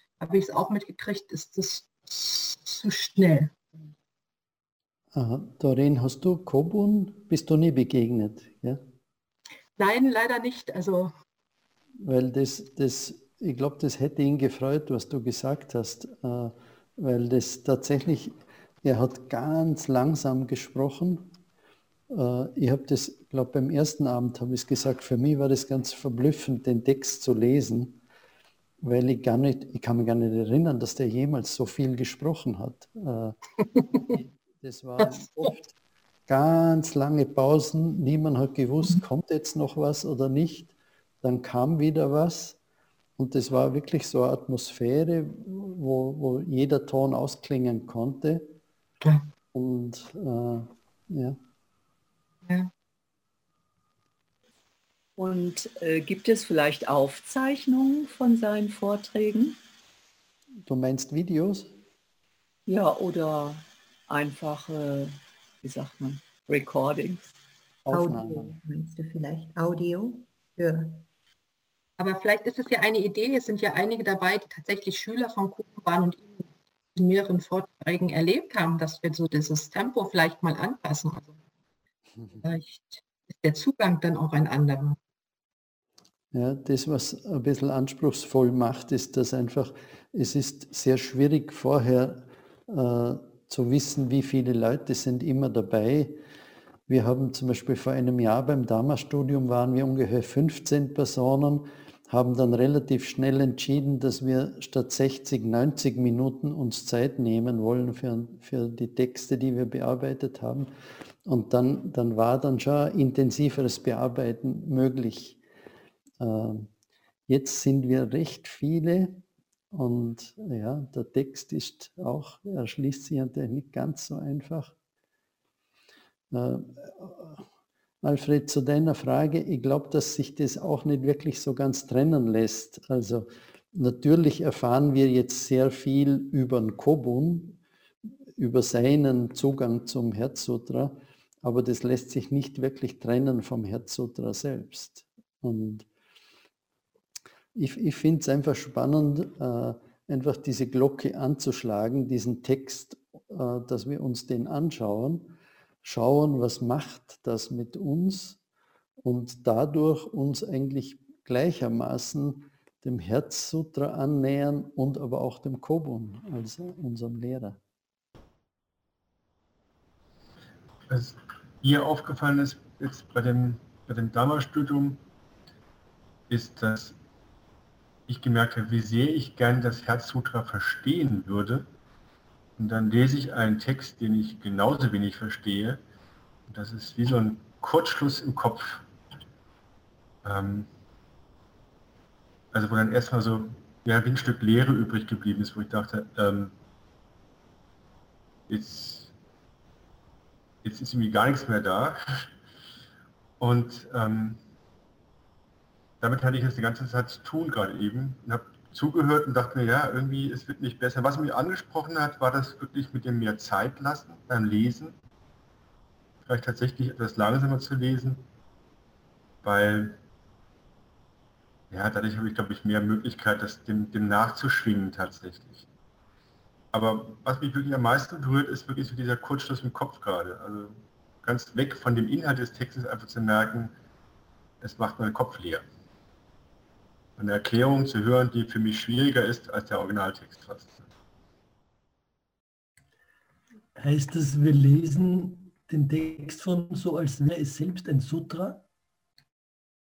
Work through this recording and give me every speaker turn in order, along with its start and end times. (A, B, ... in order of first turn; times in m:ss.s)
0:00.2-0:03.9 A
0:05.1-0:08.8 B
0:09.8-0:11.1 A
0:12.0-0:21.3 B
0:22.1-0:28.0 B
0:28.8-0:33.4 B
0:33.9-0:35.7 B
0:36.3-0:42.6 B
0:43.2-0:48.6 B
0:49.5-0:51.4 B
0:55.2-0:59.6 C
1:00.6-1:01.7 B
1:02.7-1:07.2 C
1:07.8-1:08.5 B
1:07.9-1:11.0 D
1:12.0-1:21.4 A
1:22.4-1:25.0 A
1:26.3-1:36.2 B
1:36.9-1:50.7 B
1:51.2-1:55.4 B
1:56.2-1:56.7 B
1:57.3-1:59.2 B
1:59.7-2:04.7 B
2:06.3-2:07.4 B
2:08.0-2:17.6 B
2:18.4-2:25.8 B
2:27.5-2:35.3 B
2:35.8-2:38.4 B
2:39.0-2:47.6 B
2:50.9-2:55.0 E
2:56.3-2:57.0 E
2:58.1-3:01.7 E
3:02.6-3:05.8 E
3:06.5-3:08.8 E
3:10.2-3:10.7 E
3:12.5-3:16.5 E
3:18.5-3:19.1 E
3:20.6-3:22.3 E
3:23.4-3:24.4 E
3:26.0-3:34.9 E
3:36.2-3:38.2 E
3:39.4-3:40.0 E
3:41.7-3:45.7 E
3:46.7-3:53.7 E
3:54.6-3:55.6 E
3:57.2-4:00.8 E
4:03.8-4:08.6 F